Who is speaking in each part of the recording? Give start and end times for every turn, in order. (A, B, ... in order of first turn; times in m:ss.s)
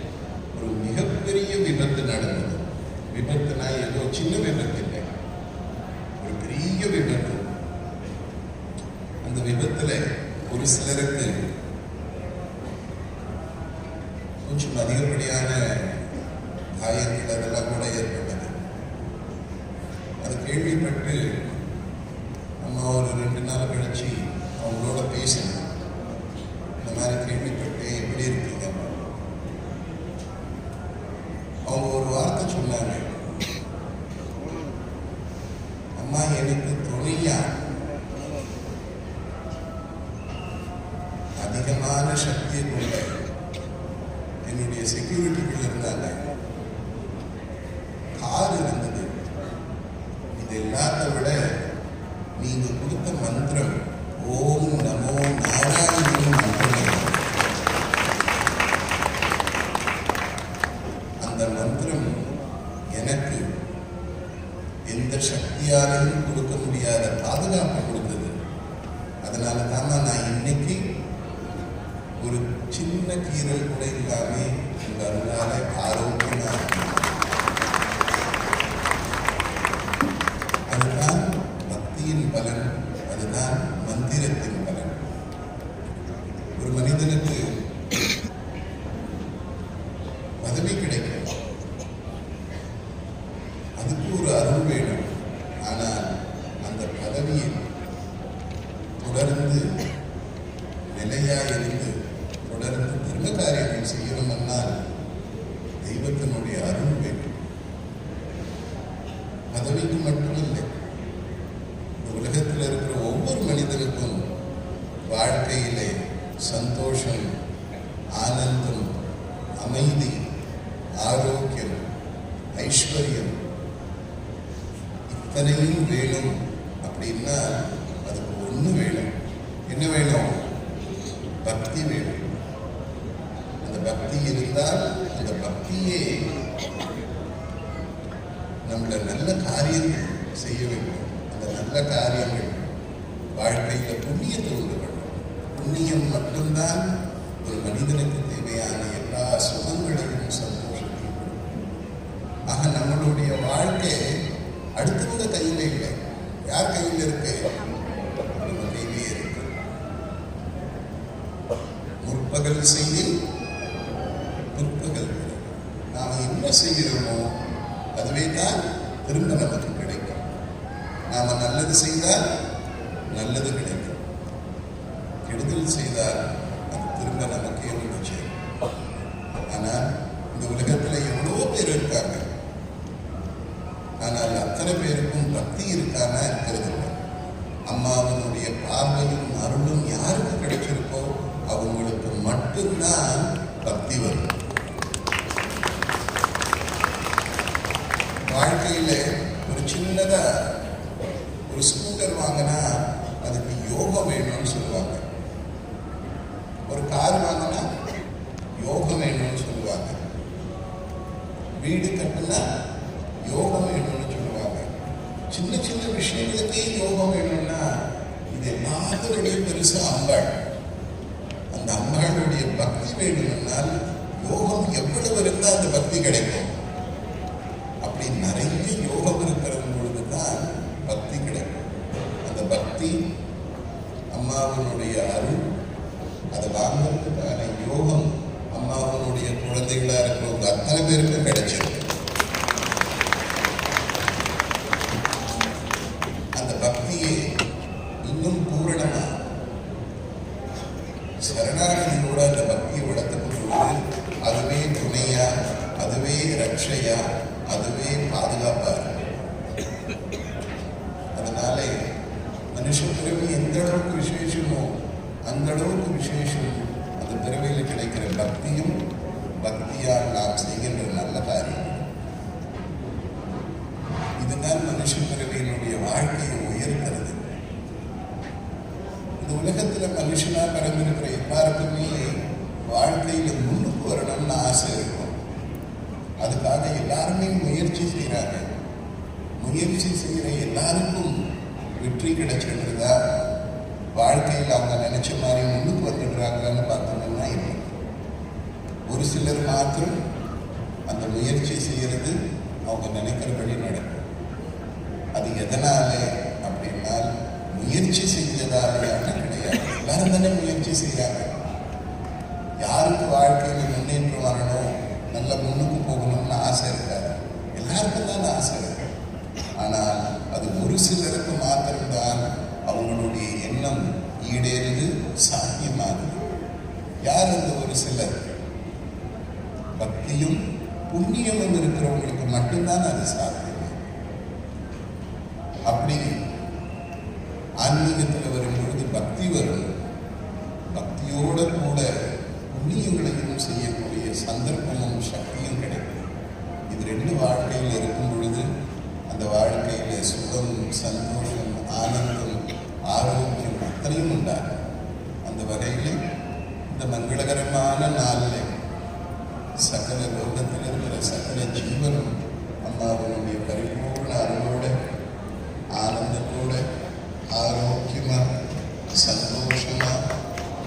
0:00.5-0:05.1 A
0:06.2-0:07.5 A
0:09.2-0:11.3 A
0:14.4-0:16.0 A
0:16.8-0:18.8 A
0:20.2-0:21.2 A
0:22.6-0:25.7 A
0:26.8-0:29.1 A
0:31.7-0:33.1 A
0:36.0-0:37.6 A
0:41.4-0:43.2 A
0:44.5-0:46.3 A
0:48.2-0:49.2 A
0:50.3-0:51.4 A
0:52.4-0:57.2 A
1:01.2-1:02.2 A
1:02.9-1:03.4 A
1:04.9-1:08.4 A
1:09.2-1:10.8 A
1:12.2-1:17.1 A
1:20.7-1:25.1 A
1:26.6-1:27.6 A
1:30.4-1:31.3 A
1:33.8-1:35.1 A
1:35.6-1:36.1 A
1:36.6-1:37.6 A
1:39.0-1:39.7 A
1:40.9-1:41.9 A
1:42.4-1:44.8 A
1:45.8-1:47.4 A
1:49.5-1:50.7 A
1:52.0-1:54.3 A
1:55.1-1:57.3 A
1:58.2-1:59.0 A
1:59.6-2:00.2 A
2:01.0-2:01.8 A
2:02.6-2:03.4 A
2:05.1-2:09.1 A
2:09.7-2:10.4 A
2:11.4-2:12.3 A
2:13.6-2:16.3 A
2:18.7-2:22.7 A
2:23.4-2:26.8 A
2:27.4-2:31.5 A
2:32.5-2:34.1 A
2:34.8-2:36.0 A
2:36.5-2:37.6 A
2:38.3-2:39.5 A
2:42.0-2:43.1 A
2:44.5-2:47.3 A
2:48.0-2:50.3 A
2:51.1-2:52.2 A
2:53.1-2:54.0 A
2:55.2-2:58.4 A
2:59.5-3:02.3 A
3:04.0-3:07.0 A
3:07.7-3:14.4 A
3:18.2-3:20.5 A
3:21.5-3:22.7 A
3:23.2-3:25.0 A
3:26.7-3:27.7 A
3:28.6-3:30.0 A
3:31.6-3:32.4 A
3:33.2-3:34.7 A
3:35.3-3:37.6 A
3:38.3-3:40.3 A
3:41.5-3:46.5 A
3:47.8-3:51.7 A
3:52.2-3:53.0 A
3:54.1-3:55.4 A
3:56.3-4:01.9 A
4:06.4-4:07.3 A
4:08.0-4:09.2 A
4:11.2-4:19.0 A
4:21.1-4:21.8 A
4:22.5-4:24.7 A
4:25.3-4:28.8 A
4:29.4-4:31.9 A
4:34.2-4:37.3 A
4:39.2-4:45.2 A
4:46.2-4:48.5 A
4:49.4-4:53.0 A
4:53.9-4:57.8 A
4:58.9-5:00.0 A
5:00.9-5:04.0 A
5:05.2-5:11.4 A
5:12.6-5:18.9 A
5:19.6-5:26.2 A
5:27.0-5:28.3 A
5:29.8-5:30.4 A
5:30.9-5:33.9 A
5:35.7-5:36.1 A
5:37.6-5:39.7 A
5:40.7-5:41.9 A
5:42.5-5:46.0 A
5:46.7-5:48.5 A
5:49.1-5:54.6 A
5:55.2-5:56.0 A
5:56.7-5:58.5 A
5:59.6-6:02.1 A
6:02.6-6:04.7 A
6:05.8-6:06.6 A
6:07.3-6:08.3 A
6:08.9-6:10.0 A